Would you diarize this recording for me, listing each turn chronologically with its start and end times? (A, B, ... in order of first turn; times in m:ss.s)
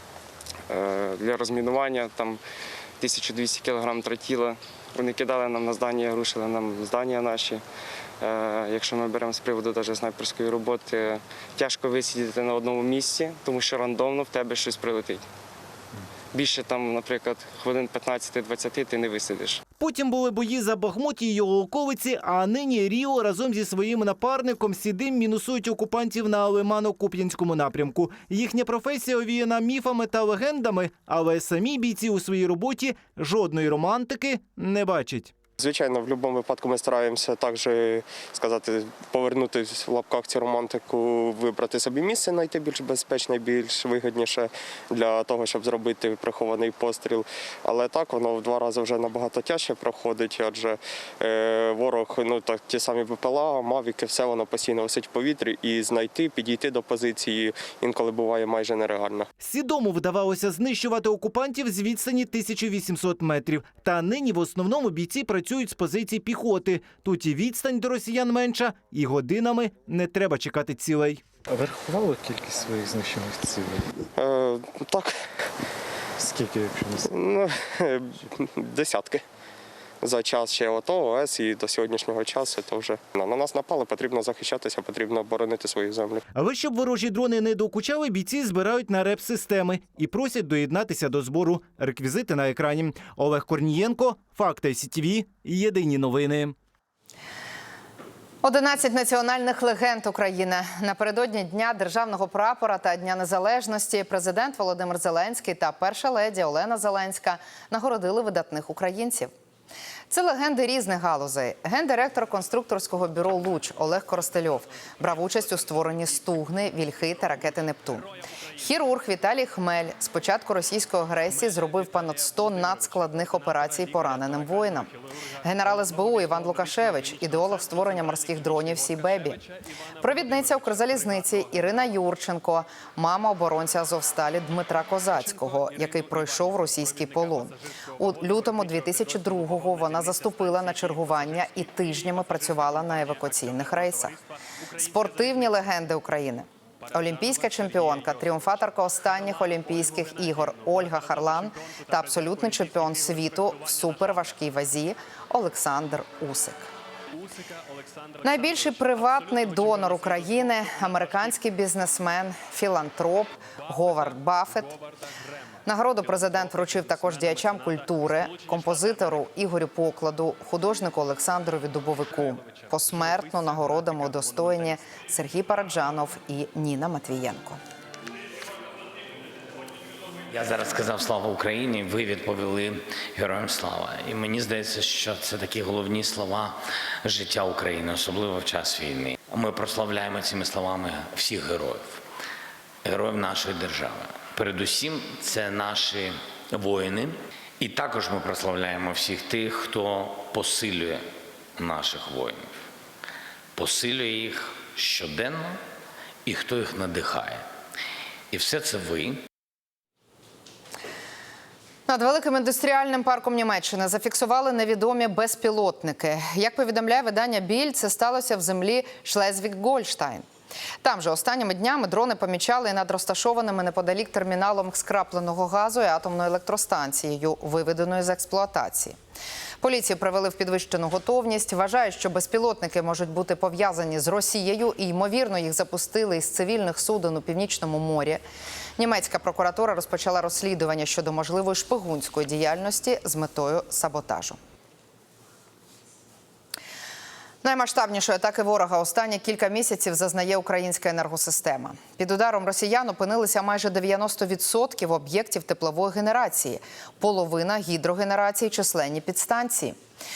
0:00.7-0:02.4 A
0:03.0-0:07.6 A
0:08.2-0:15.2 A
0:16.3-0:19.6 A
0:19.8-0:35.3 B
0:35.6-0:59.3 C
0:59.4-1:11.2 B
1:11.6-1:13.7 D
1:14.2-1:15.1 C
1:16.3-1:17.0 D
1:17.0-1:19.2 C
1:20.0-1:26.2 C
1:26.3-1:36.6 B
1:38.4-1:49.3 E
1:50.1-2:04.9 E
2:05.4-2:09.4 E
2:10.0-2:24.2 E
2:24.8-2:36.7 E
2:38.2-2:44.8 E
2:45.6-2:57.6 E
3:00.3-3:12.0 F
3:12.8-3:21.0 F
3:21.6-3:22.5 F
3:23.6-3:25.6 F
3:26.2-3:27.5 F
3:28.3-3:29.2 F
3:31.9-3:40.2 E
3:40.8-3:49.0 E
3:49.6-3:58.2 E
3:58.8-4:04.4 E
4:07.4-4:19.8 E